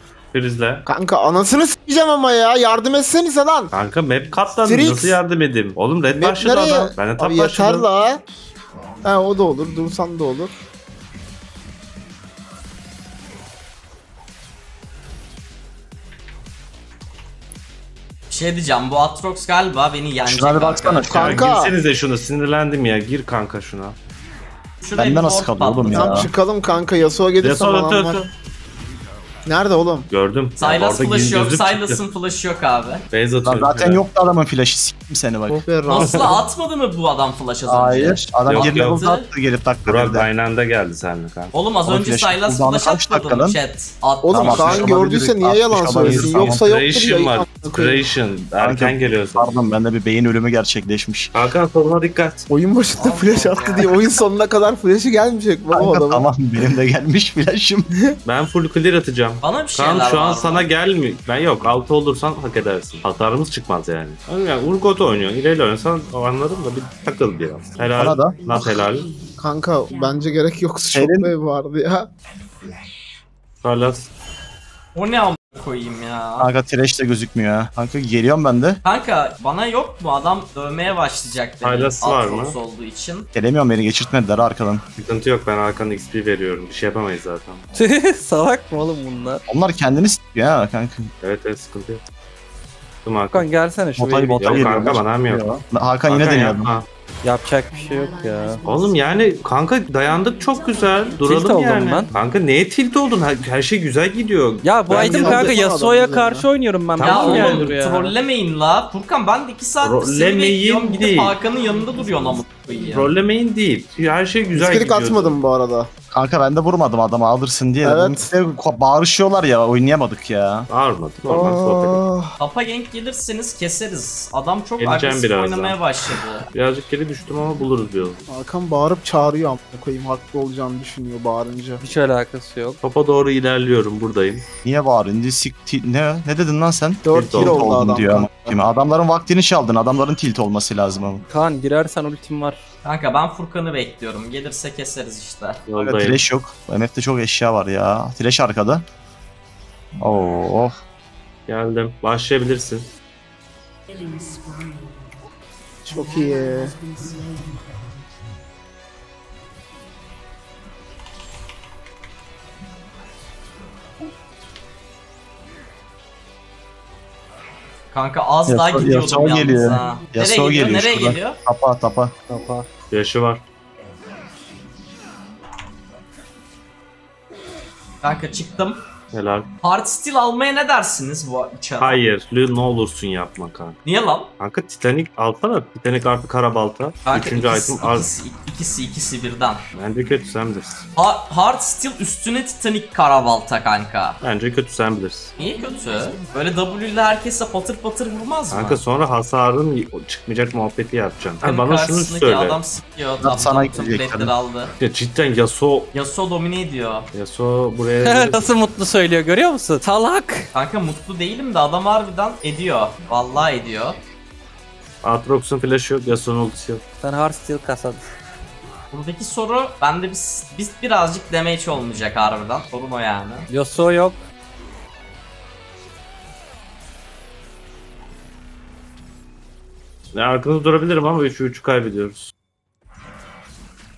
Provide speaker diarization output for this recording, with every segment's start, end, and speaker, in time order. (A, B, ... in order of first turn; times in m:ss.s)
0:00.3-0:00.8 A
0:00.9-0:03.7 B
0:03.7-0:07.9 A
0:04.6-0:05.2 B
0:06.2-0:08.2 B
0:09.0-0:10.5 B
0:18.3-0:21.4 C
0:20.2-0:21.5 D
0:21.1-0:21.7 B
0:21.1-0:24.0 A
0:24.8-0:26.3 C
0:25.0-0:26.3 D
0:25.9-0:28.2 B
0:27.4-0:28.3 A
0:29.5-0:30.1 B
0:30.1-0:32.0 A
0:30.6-0:33.0 C
0:33.1-0:34.0 A
0:33.4-0:35.6 D
0:35.6-0:36.4 B
0:35.9-0:39.3 C
0:37.7-0:40.3 D
0:38.5-0:39.0 A
0:39.9-0:41.5 A
0:41.5-0:45.0 C
0:41.9-0:43.6 D
0:44.2-0:48.1 B
0:44.3-0:46.7 D
0:46.0-0:49.6 A
0:48.6-0:51.3 D
0:51.3-0:52.5 A
0:52.5-0:56.3 B
0:53.0-0:54.0 C
0:55.7-0:57.9 D
0:58.3-1:09.1 A
0:59.4-1:00.7 C
1:08.0-1:08.8 D
1:09.4-1:12.1 B
1:10.9-1:11.3 D
1:13.6-1:14.1 A
1:15.0-1:16.5 C
1:16.4-1:18.8 D
1:18.8-1:23.3 C
1:21.6-1:22.6 A
1:23.4-1:24.8 D
1:25.0-1:27.6 A
1:27.8-1:29.4 E
1:29.5-1:31.1 D
1:31.2-1:32.0 A
1:33.1-1:33.5 A
1:33.3-1:35.0 E
1:34.0-1:36.7 D
1:34.4-1:35.5 A
1:36.1-1:36.9 A
1:37.2-1:38.6 E
1:38.6-1:45.5 A
1:41.2-1:42.1 E
1:44.6-1:48.1 E
1:44.9-1:46.5 B
1:47.0-1:47.8 A
1:47.0-1:53.1 C
1:49.8-1:51.4 A
1:52.9-1:55.4 A
1:54.5-1:55.9 B
1:56.1-2:00.7 D
1:57.8-1:58.2 B
2:00.7-2:02.0 A
2:01.3-2:02.4 B
2:02.4-2:06.5 C
2:04.8-2:05.8 A
2:06.5-2:08.3 A
2:08.3-2:11.8 B
2:11.8-2:12.8 E
2:12.8-2:14.4 A
2:14.6-2:21.2 D
2:17.0-2:18.6 B
2:17.1-2:17.7 A
2:21.3-2:22.6 E
2:22.8-2:25.6 C
2:25.7-2:26.2 A
2:25.8-2:28.8 D
2:30.0-2:30.8 D
2:31.5-2:32.9 A
2:35.8-2:36.8 B
2:47.9-2:51.4 C
2:48.5-2:52.1 D
2:52.3-2:52.7 E
2:52.9-2:53.4 A
2:58.0-2:58.8 C
2:59.1-2:59.5 A
2:59.6-3:02.0 C
3:01.8-3:03.8 A
3:03.8-3:04.3 C
3:04.4-3:08.1 A
3:07.0-3:09.6 C
3:09.7-3:10.8 A
3:11.0-3:14.2 C
3:14.2-3:15.3 A
3:15.4-3:18.8 C
3:18.5-3:22.6 A
3:21.4-3:24.7 C
3:23.2-3:24.3 D
3:24.8-3:25.9 A
3:25.9-3:27.1 C
3:27.1-3:28.5 A
3:28.0-3:30.5 E
3:30.5-3:34.0 C
3:35.0-3:36.8 A
3:37.0-3:38.0 E
3:38.9-3:43.5 C
3:43.5-3:44.2 E
3:50.1-3:52.3 A